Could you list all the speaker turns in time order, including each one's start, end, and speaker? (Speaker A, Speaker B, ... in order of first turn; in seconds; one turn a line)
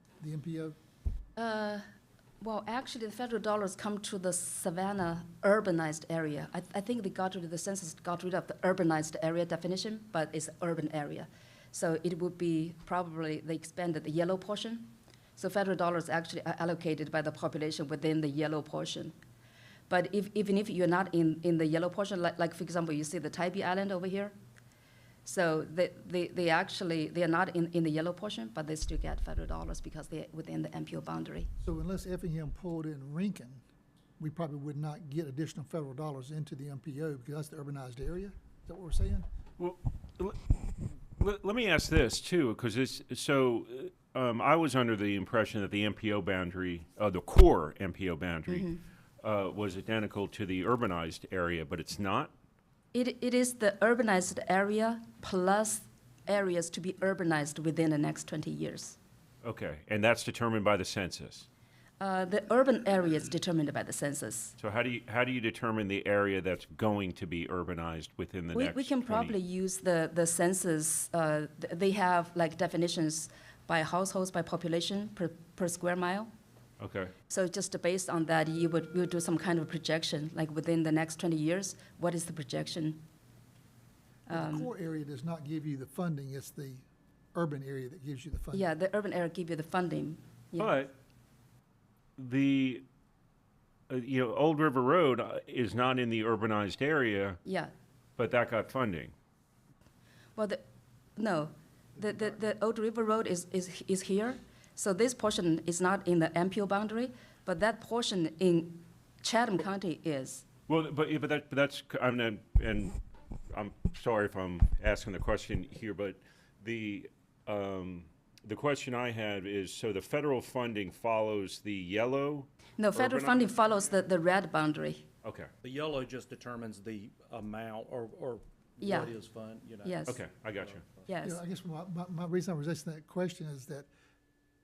Speaker A: 0.2-0.8
Speaker B: 1.4-1.8
Speaker B: 2.4-19.1
Speaker B: 19.9-24.3
Speaker B: 25.2-31.5
Speaker A: 31.6-33.6
Speaker A: 34.2-39.3
Speaker C: 39.6-40.6
Speaker C: 41.2-52.3
Speaker B: 48.5-48.8
Speaker B: 52.9-59.0
Speaker C: 59.4-61.5
Speaker B: 62.0-64.5
Speaker C: 64.6-69.4
Speaker B: 68.5-76.3
Speaker C: 76.8-77.1
Speaker B: 77.3-83.0
Speaker B: 84.3-84.7
Speaker A: 84.3-88.7
Speaker B: 88.5-90.8
Speaker C: 90.6-90.9
Speaker C: 92.2-92.8
Speaker C: 93.9-97.4
Speaker B: 97.4-97.7
Speaker C: 98.2-99.1
Speaker B: 100.3-100.6
Speaker B: 101.2-110.5
Speaker C: 110.7-113.0
Speaker C: 113.5-123.4
Speaker B: 122.8-125.0
Speaker C: 125.2-125.5
Speaker D: 125.6-130.1
Speaker B: 128.8-129.1
Speaker B: 129.8-130.2
Speaker C: 130.1-130.8
Speaker D: 130.6-131.0
Speaker B: 131.1-131.4
Speaker A: 131.2-133.9